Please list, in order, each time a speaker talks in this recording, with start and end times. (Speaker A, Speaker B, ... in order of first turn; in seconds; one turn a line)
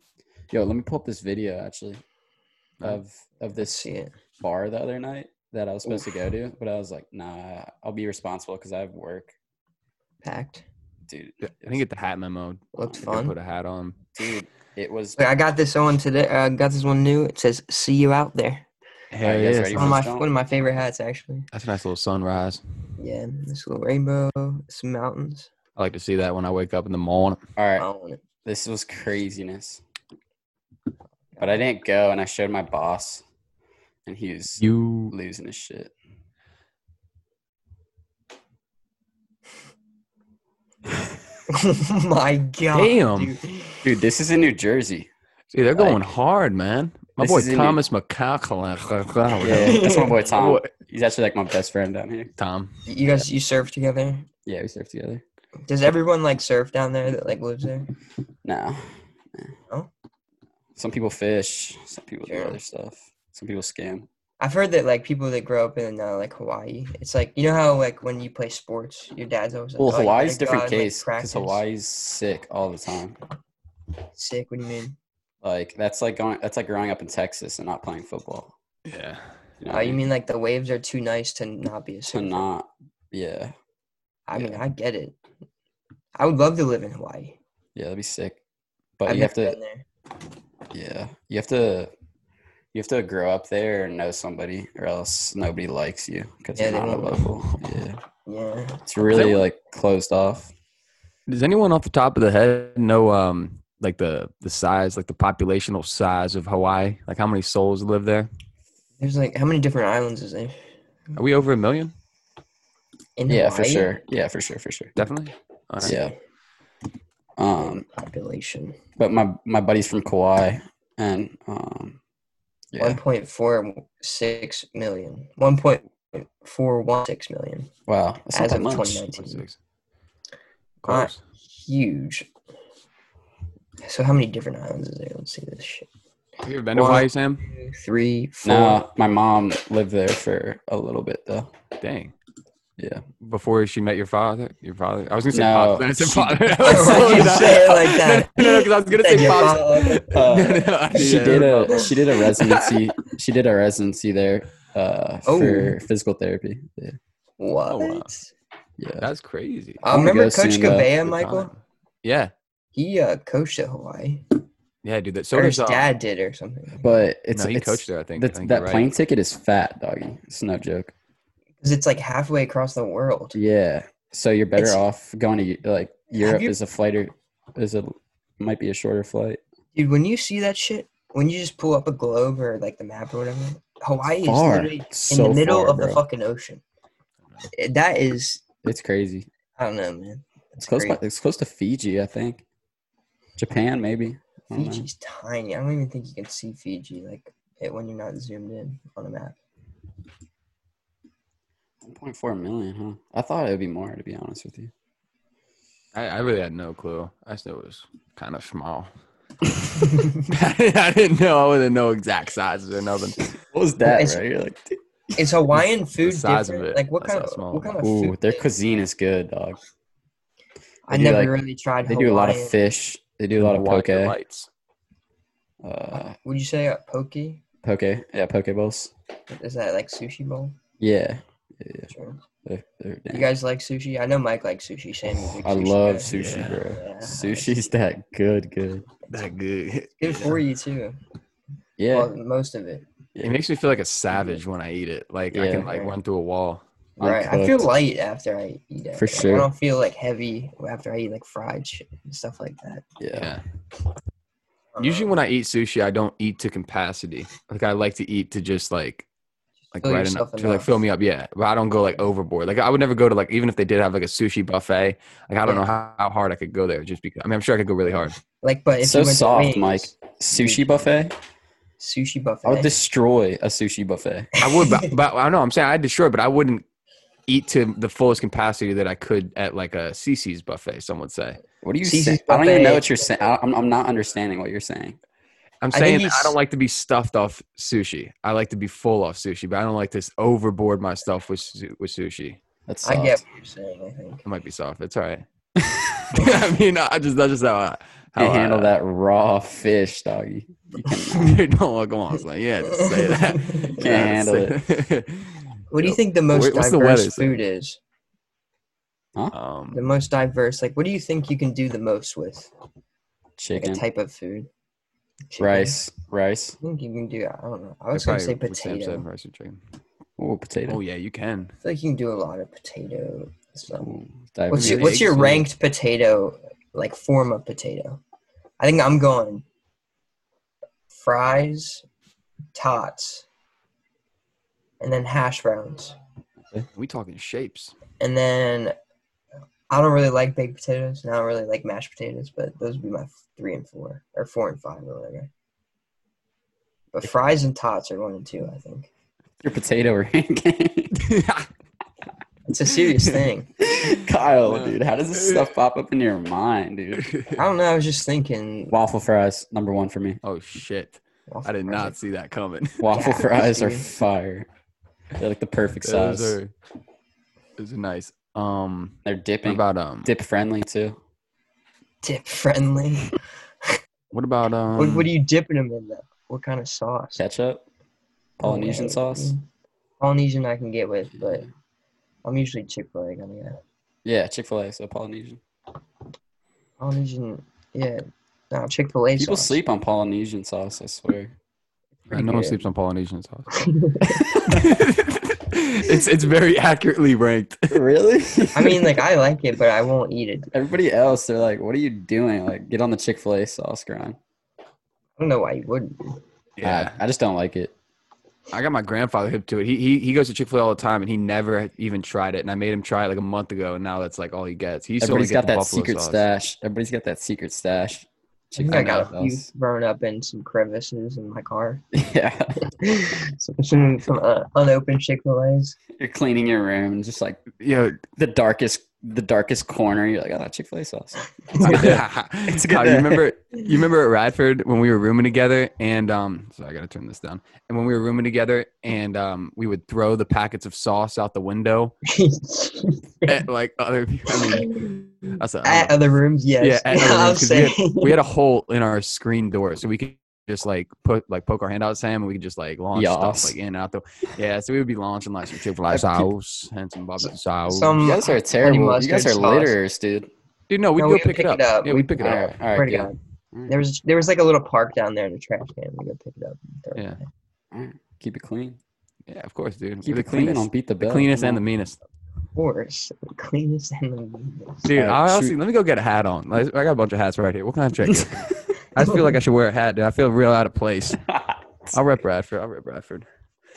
Speaker A: 0.5-2.0
Speaker A: 2.8-3.8
Speaker B: 3.5-4.1
Speaker A: 4.4-9.3
Speaker B: 10.2-10.6
Speaker A: 11.1-11.8
Speaker C: 11.4-14.0
Speaker B: 12.7-13.3
Speaker A: 14.2-15.2
Speaker B: 15.2-18.7
Speaker C: 19.1-20.0
Speaker A: 19.2-20.3
Speaker B: 19.7-21.5
Speaker C: 21.5-22.6
Speaker B: 23.0-25.5
Speaker C: 25.8-27.4
Speaker A: 27.6-27.9
Speaker B: 27.8-28.2
Speaker A: 28.4-29.8
Speaker A: 31.4-33.2
Speaker A: 34.0-35.9
Speaker C: 34.6-35.1
Speaker B: 41.5-43.8
Speaker C: 42.7-43.3
Speaker A: 43.8-45.1
Speaker C: 45.5-50.7
Speaker A: 45.7-46.0
Speaker A: 47.2-47.8
Speaker A: 49.4-52.3
Speaker B: 49.6-50.2
Speaker C: 52.4-52.8
Speaker B: 52.9-54.3
Speaker A: 54.5-55.2
Speaker B: 55.7-57.9
Speaker A: 58.4-59.5
Speaker A: 60.8-64.1
Speaker B: 62.2-62.6
Speaker B: 64.4-71.6
Speaker A: 69.8-73.2
Speaker B: 74.1-75.0
Speaker A: 75.4-78.5
Speaker C: 78.8-79.2
Speaker A: 79.6-80.0
Speaker B: 79.7-82.4
Speaker A: 82.1-83.5
Speaker B: 84.3-85.2
Speaker A: 84.3-84.6
Speaker B: 86.1-87.4
Speaker A: 87.7-88.4
Speaker A: 89.0-89.6
Speaker B: 89.1-89.8
Speaker A: 90.7-91.9
Speaker A: 92.7-98.0
Speaker B: 96.5-97.3
Speaker B: 98.2-98.8
Speaker A: 98.8-100.5
Speaker C: 99.1-99.4
Speaker C: 101.3-108.3
Speaker B: 109.0-110.5
Speaker C: 111.2-111.9
Speaker B: 113.2-113.9
Speaker A: 113.3-115.0
Speaker C: 115.0-115.9
Speaker A: 115.8-116.1
Speaker B: 115.8-116.1
Speaker A: 117.4-117.8
Speaker B: 117.6-118.8
Speaker A: 119.0-122.0
Speaker A: 122.7-123.0
Speaker B: 122.8-127.7
Speaker A: 127.9-129.0
Speaker B: 128.3-129.4
Speaker C: 129.1-129.6
Speaker C: 130.8-131.2
Speaker B: 130.8-132.3
Speaker B: 133.8-135.9
Speaker C: 136.4-137.5
Speaker B: 136.7-138.8
Speaker A: 138.4-141.5
Speaker C: 141.8-142.1
Speaker A: 142.8-143.0
Speaker C: 143.2-152.7
Speaker A: 145.3-147.6
Speaker B: 146.6-151.8
Speaker A: 150.1-157.0
Speaker B: 155.2-155.8
Speaker B: 157.4-158.3
Speaker C: 157.7-158.1
Speaker A: 158.8-159.1
Speaker C: 159.0-159.8
Speaker B: 159.8-161.5
Speaker A: 159.9-160.9
Speaker C: 161.0-162.3
Speaker B: 162.7-164.2
Speaker C: 164.8-165.9
Speaker B: 165.3-167.0
Speaker A: 166.8-170.9
Speaker C: 167.3-168.9
Speaker B: 171.6-173.4
Speaker A: 173.3-179.4
Speaker B: 176.1-176.5
Speaker B: 179.7-186.6
Speaker A: 184.2-186.0
Speaker B: 187.5-188.4
Speaker A: 188.6-189.3
Speaker B: 189.6-191.0
Speaker A: 190.6-192.4
Speaker A: 193.4-194.9
Speaker B: 194.5-199.3
Speaker A: 201.8-204.7
Speaker C: 205.9-208.9
Speaker B: 209.8-210.1
Speaker C: 210.2-213.2
Speaker A: 213.3-214.8
Speaker B: 213.8-214.2
Speaker B: 215.2-218.4
Speaker C: 216.0-217.8
Speaker A: 217.8-219.6
Speaker B: 220.9-222.5
Speaker A: 220.9-224.2
Speaker C: 223.4-224.5
Speaker A: 225.6-226.2
Speaker B: 225.9-227.4
Speaker A: 227.6-228.9
Speaker B: 229.3-230.6
Speaker A: 230.8-231.9
Speaker B: 231.9-232.2
Speaker A: 232.4-233.3
Speaker B: 233.1-236.1
Speaker A: 235.0-238.9
Speaker C: 236.1-236.6
Speaker B: 236.7-237.7
Speaker C: 239.1-240.4
Speaker B: 240.0-241.0
Speaker A: 241.8-242.1
Speaker B: 241.9-242.8
Speaker A: 243.1-243.4
Speaker C: 243.2-246.6
Speaker A: 244.1-244.4
Speaker A: 245.3-245.7
Speaker B: 245.7-245.9
Speaker B: 247.0-252.8
Speaker A: 247.0-247.7
Speaker A: 248.9-249.5
Speaker A: 253.0-253.3
Speaker C: 253.1-253.4
Speaker B: 254.7-255.1
Speaker C: 254.8-259.1
Speaker C: 259.7-268.1
Speaker B: 259.8-260.7
Speaker B: 268.4-270.7
Speaker A: 268.8-271.1
Speaker B: 271.8-272.7
Speaker A: 272.4-274.3
Speaker C: 274.4-276.6
Speaker B: 274.4-274.9
Speaker C: 277.3-281.4
Speaker A: 281.6-285.0
Speaker B: 281.8-283.2
Speaker C: 285.6-292.4
Speaker B: 285.7-286.4
Speaker A: 292.7-293.2
Speaker B: 292.8-294.2
Speaker C: 294.2-295.2
Speaker A: 295.6-296.2
Speaker C: 296.1-298.7
Speaker A: 298.2-301.4
Speaker C: 301.1-307.4
Speaker B: 302.7-303.9
Speaker A: 303.8-304.6
Speaker B: 305.7-307.8
Speaker C: 309.3-309.8
Speaker B: 309.7-312.5
Speaker A: 313.4-313.8
Speaker B: 313.5-314.5
Speaker B: 315.3-315.8
Speaker A: 315.4-316.6
Speaker B: 316.6-319.0
Speaker C: 317.9-319.6
Speaker A: 320.2-320.8
Speaker C: 320.7-321.5
Speaker B: 321.6-323.9
Speaker A: 323.7-325.4
Speaker B: 324.5-328.0
Speaker C: 324.6-325.4
Speaker B: 328.6-329.4
Speaker B: 330.9-331.8
Speaker B: 332.5-333.2
Speaker B: 334.8-335.9
Speaker C: 336.7-337.7
Speaker B: 338.0-338.7
Speaker B: 339.7-345.3
Speaker B: 346.9-348.9
Speaker A: 349.4-350.9
Speaker C: 350.9-351.5
Speaker B: 352.5-353.5
Speaker A: 353.6-357.1
Speaker C: 354.4-355.5
Speaker C: 356.9-357.4
Speaker B: 357.3-358.7
Speaker A: 358.7-360.2
Speaker C: 360.2-362.8
Speaker B: 361.3-361.9
Speaker A: 362.8-364.5
Speaker B: 362.9-363.9
Speaker A: 365.2-366.4
Speaker C: 365.8-366.5
Speaker C: 367.6-370.1
Speaker A: 369.0-371.0
Speaker B: 372.0-373.2
Speaker C: 374.1-375.1
Speaker B: 374.8-377.2
Speaker A: 377.1-377.6
Speaker A: 378.4-379.3
Speaker B: 378.4-379.4
Speaker B: 380.0-381.4
Speaker A: 381.1-381.4
Speaker B: 382.2-383.6
Speaker A: 384.0-385.4
Speaker B: 386.8-389.6
Speaker A: 389.2-391.3
Speaker B: 392.1-392.6
Speaker C: 392.1-393.5
Speaker B: 393.6-394.3
Speaker C: 394.4-397.8
Speaker A: 397.7-399.0
Speaker B: 398.5-400.5
Speaker A: 400.5-404.2
Speaker B: 405.2-406.2
Speaker C: 406.6-407.0
Speaker A: 406.6-407.7
Speaker C: 408.5-416.2
Speaker A: 415.0-419.5
Speaker B: 418.6-421.8
Speaker A: 421.9-422.5
Speaker B: 422.6-425.8
Speaker A: 426.0-427.4
Speaker C: 427.6-428.0
Speaker A: 428.2-433.3
Speaker C: 431.6-441.9
Speaker B: 442.1-443.4
Speaker C: 443.2-445.9
Speaker B: 444.5-444.9
Speaker B: 445.6-448.1
Speaker C: 446.6-458.0
Speaker A: 452.9-453.6
Speaker A: 455.9-456.3
Speaker B: 457.2-459.8
Speaker A: 458.0-460.3
Speaker C: 460.7-462.5
Speaker B: 461.0-463.1
Speaker A: 462.2-463.7
Speaker B: 463.7-467.2
Speaker A: 467.7-468.8
Speaker C: 469.3-472.0
Speaker A: 470.0-471.6
Speaker B: 472.6-474.9
Speaker C: 474.9-481.2
Speaker A: 474.9-475.6
Speaker A: 481.3-482.0
Speaker C: 481.9-483.3